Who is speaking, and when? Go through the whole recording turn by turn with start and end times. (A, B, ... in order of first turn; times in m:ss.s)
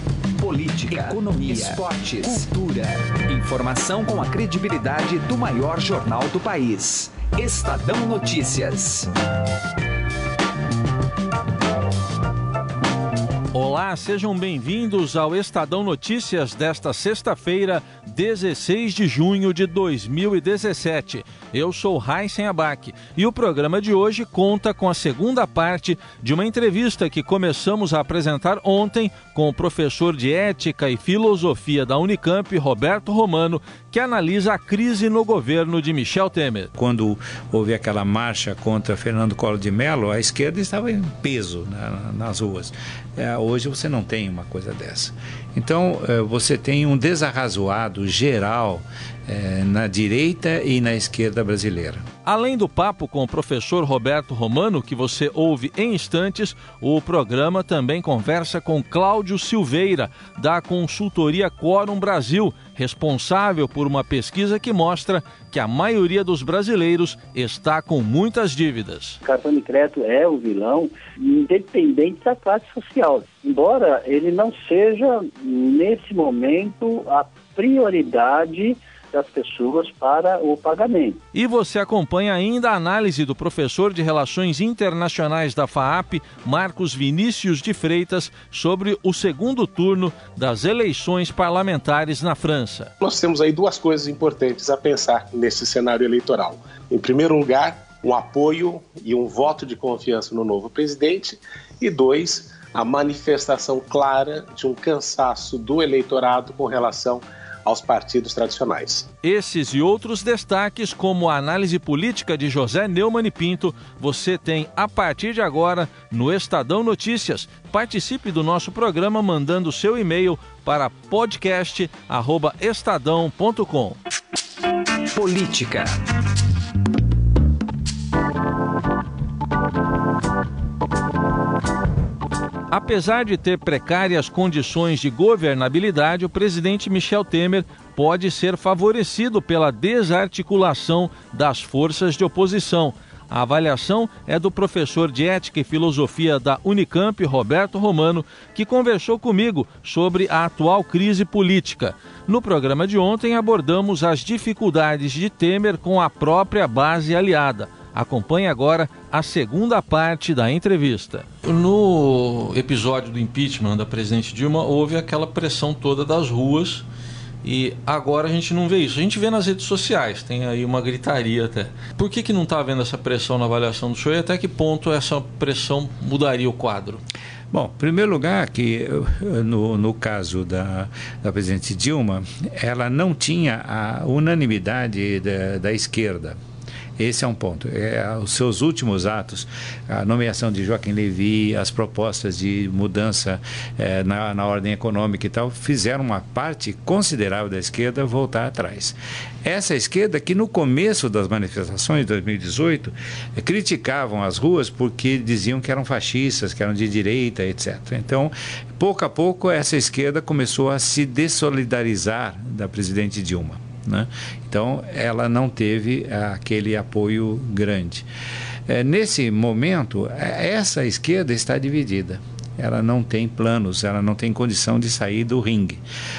0:00.4-0:09.1 A
0:13.5-0:36.7 B
0:36.8-0:52.0 C
0:52.2-1:09.2 B
1:09.2-1:21.2 D
1:21.3-1:32.9 B
1:33.0-1:49.1 E
1:49.2-2:04.0 B
2:05.1-2:05.9 A
2:12.7-2:46.8 B
2:47.4-2:57.0 B
2:57.5-3:06.4 C
3:07.0-3:38.1 C
3:38.7-3:45.8 C